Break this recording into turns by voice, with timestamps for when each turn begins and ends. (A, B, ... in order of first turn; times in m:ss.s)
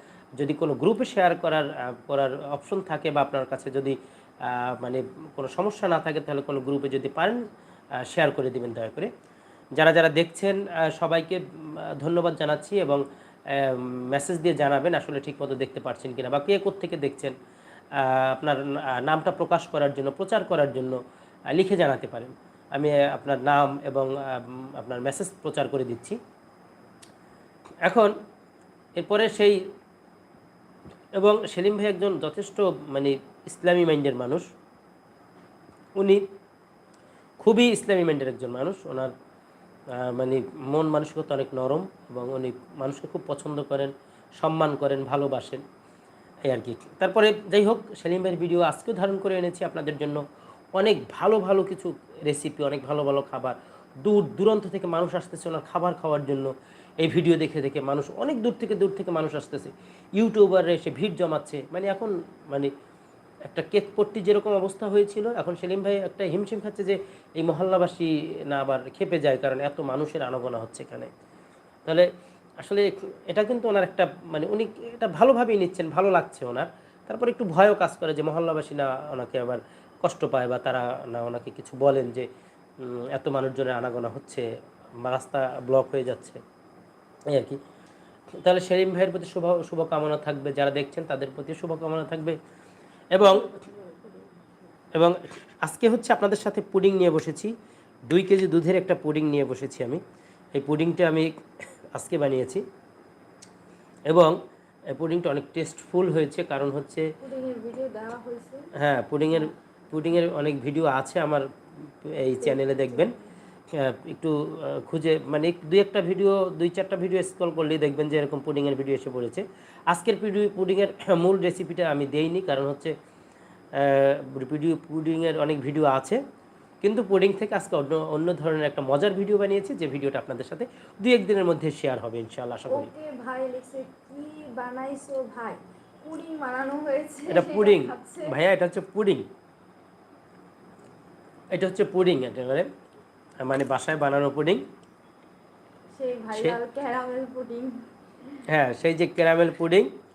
0:00.4-0:07.4 A
0:08.0-0:09.1 A
0:09.8-0:17.3 A
0:18.0-0:21.0 A
0:21.5-0:26.2 A
0:27.8-0:28.1 A
0:29.0-0:29.7 A
0:31.2-0:34.4 A
0:36.0-0:36.2 A
0:37.4-0:39.1 A
0:39.9-0:45.6 A
0:46.4-0:50.2 A
0:50.8-0:56.5 A
0:57.0-1:02.7 A
1:03.4-1:11.1 A
1:12.6-1:22.3 A
1:22.8-1:24.5 A
1:25.0-1:26.4 A
1:27.3-1:27.6 A
1:28.4-1:32.4 A
1:33.1-1:33.5 A
1:33.2-1:34.7 B
1:34.9-1:37.5 A
1:38.1-1:40.0 A
1:40.5-1:41.3 A
1:41.9-1:42.6 A
1:44.1-1:44.4 A
1:44.9-1:47.0 A
1:47.2-1:48.7 B
1:48.8-1:51.4 A
1:52.0-1:53.1 A
1:52.4-1:53.3 B
1:53.7-2:02.9 A
2:03.8-2:06.2 A
2:06.8-2:12.9 A
2:12.7-2:18.3 B
2:17.3-2:19.2 A
2:21.5-2:22.7 A
2:23.4-2:24.6 A
2:26.0-2:27.8 B
2:28.5-2:29.9 A